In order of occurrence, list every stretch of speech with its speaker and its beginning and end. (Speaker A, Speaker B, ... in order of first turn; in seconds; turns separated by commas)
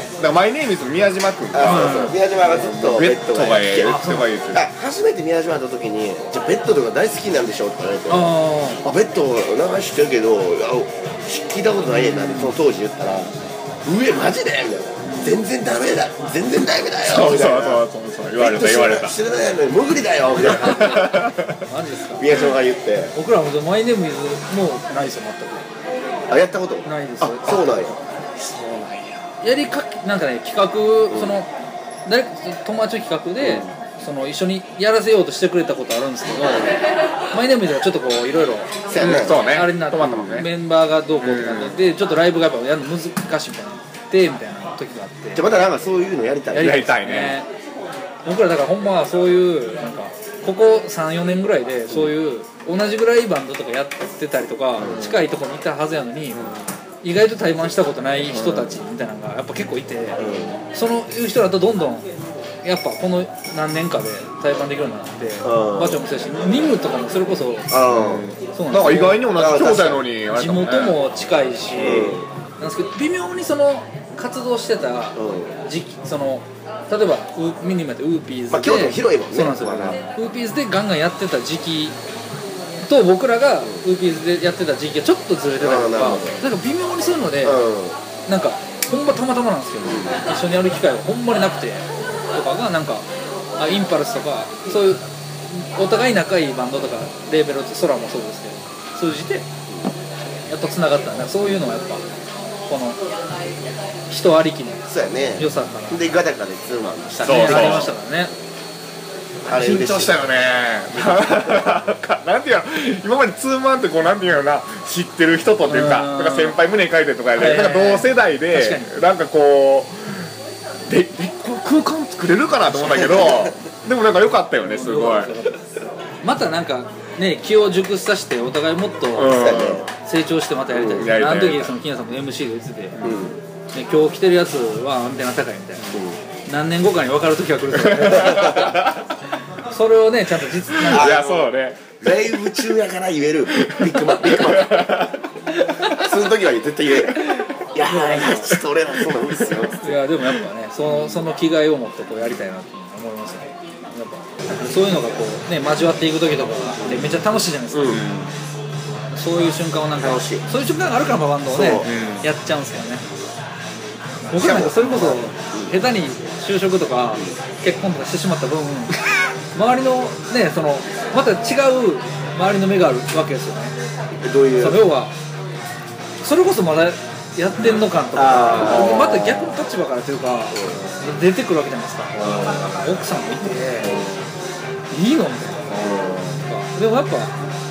Speaker A: 0.2-4.7, Speaker B: 1.5-13.3, Speaker C: 1.6-2.2, Speaker C: 3.8-4.3, Speaker C: 8.1-8.8, Speaker C: 11.9-12.6, Speaker B: 13.8-17.8, Speaker C: 15.0-15.4, Speaker A: 17.0-19.1, Speaker B: 18.4-21.2, Speaker A: 20.5-21.5, Speaker C: 20.6-21.1, Speaker C: 21.7-22.5, Speaker B: 22.2-23.1, Speaker C: 23.1-25.7, Speaker B: 26.3-28.0, Speaker C: 26.9-27.6, Speaker C: 28.6-28.9, Speaker A: 28.7-29.1, Speaker C: 29.4-31.5, Speaker C: 32.1-36.8, Speaker B: 33.4-33.7, Speaker C: 37.3-45.5, Speaker B: 38.9-39.4, Speaker A: 39.0-40.5, Speaker B: 40.0-40.4, Speaker A: 41.2-41.8, Speaker B: 45.4-47.0, Speaker C: 46.5-47.5, Speaker A: 46.6-47.4, Speaker C: 48.2-56.4, Speaker B: 54.8-55.2, Speaker A: 56.4-56.7, Speaker C: 57.0-60.2, Speaker A: 58.3-58.7, Speaker B: 60.2-60.6, Speaker C: 60.7-62.1, Speaker C: 62.6-67.8, Speaker B: 65.4-66.0, Speaker B: 67.7-68.3, Speaker A: 67.9-71.0, Speaker C: 68.5-69.3, Speaker B: 69.4-70.1, Speaker C: 70.3-82.0, Speaker B: 71.8-72.3, Speaker B: 75.2-75.6, Speaker B: 78.5-80.0, Speaker C: 82.8-87.6, Speaker B: 85.6-86.4, Speaker B: 87.4-88.0, Speaker C: 88.3-93.0, Speaker B: 89.8-90.1, Speaker C: 93.6-99.5, Speaker C: 100.5-102.0, Speaker C: 102.7-103.0, Speaker C: 104.1-106.0, Speaker B: 104.9-107.9, Speaker C: 107.2-108.3, Speaker A: 107.2-107.9, Speaker B: 109.5-110.2, Speaker A: 109.5-120.3, Speaker B: 111.2-111.7, Speaker C: 115.7-116.6, Speaker C: 117.4-119.0, Speaker A: 120.9-125.3, Speaker B: 122.8-123.5, Speaker C: 124.6-125.5, Speaker C: 126.2-129.3, Speaker A: 129.1-129.9, Speaker B: 129.3-129.9, Speaker C: 130.1-133.0, Speaker B: 130.7-131.1, Speaker A: 131.0-131.7, Speaker A: 132.9-133.2, Speaker B: 133.0-133.4, Speaker C: 133.7-135.8, Speaker B: 135.9-136.2, Speaker C: 136.5-138.8, Speaker A: 137.8-138.9, Speaker B: 138.1-138.8, Speaker C: 139.7-141.1, Speaker A: 140.8-142.6, Speaker B: 140.9-145.0, Speaker A: 143.6-145.2, Speaker B: 145.9-149.9, Speaker C: 147.9-148.3, Speaker A: 148.0-148.6, Speaker A: 149.1-149.7, Speaker C: 149.8-158.0, Speaker B: 156.8-157.1, Speaker B: 157.7-158.0, Speaker A: 157.8-158.3, Speaker C: 159.1-163.0, Speaker B: 160.0-160.5, Speaker B: 161.5-161.9, Speaker A: 161.8-162.3, Speaker C: 164.3-169.0, Speaker B: 164.4-165.8, Speaker C: 169.6-173.7, Speaker B: 174.2-174.8, Speaker C: 174.6-175.1, Speaker C: 176.2-183.9, Speaker B: 178.1-179.3, Speaker A: 178.6-179.6, Speaker B: 180.5-180.8, Speaker B: 182.2-182.8, Speaker A: 182.3-182.8, Speaker A: 183.8-184.1, Speaker C: 184.9-185.7, Speaker A: 185.7-186.4, Speaker B: 185.8-186.2, Speaker C: 186.4-187.3